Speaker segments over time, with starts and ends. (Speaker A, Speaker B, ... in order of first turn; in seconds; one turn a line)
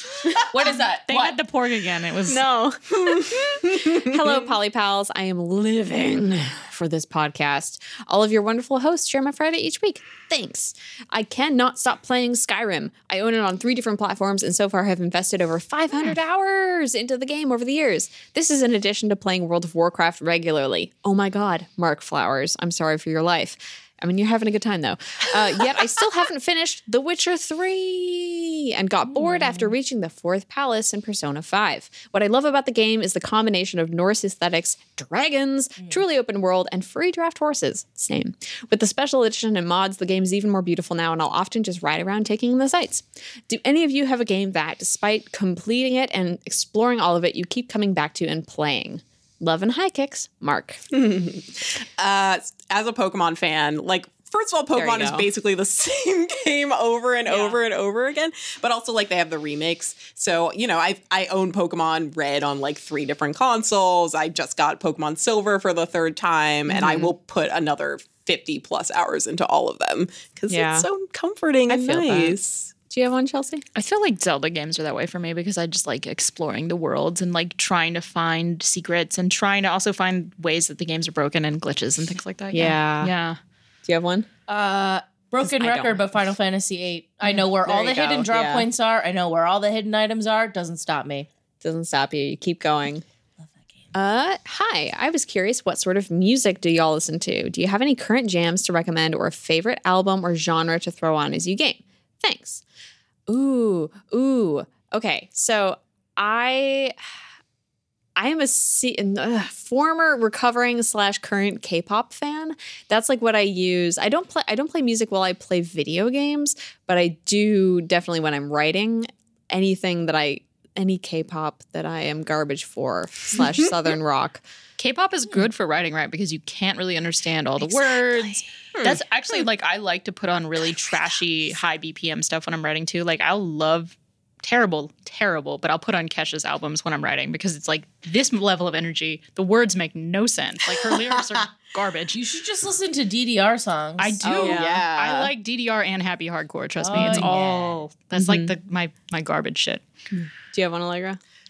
Speaker A: 0.5-1.4
Speaker B: 1.1-2.5
Speaker C: 2.3-50.8
Speaker D: 3.0-4.3
Speaker D: 50.9-72.7
Speaker C: 54.7-55.3
Speaker C: 66.7-67.1
Speaker C: 70.5-70.9
Speaker C: 71.7-73.6
Speaker B: 73.7-83.4
Speaker C: 82.5-83.1
Speaker C: 83.8-84.3
Speaker A: 84.5-91.3
Speaker C: 85.4-86.1
Speaker C: 87.3-88.7
Speaker C: 91.6-93.0
Speaker C: 93.9-102.6
Speaker C: 103.3-107.0
Speaker C: 108.2-124.4
Speaker B: 124.8-142.2
Speaker C: 127.6-128.4
Speaker D: 128.8-129.0
Speaker A: 142.1-144.6
Speaker B: 144.0-149.8
Speaker C: 144.3-144.8
Speaker D: 144.3-145.3
Speaker A: 146.8-147.8
Speaker C: 146.9-147.3
Speaker C: 148.1-148.5
Speaker C: 150.1-151.2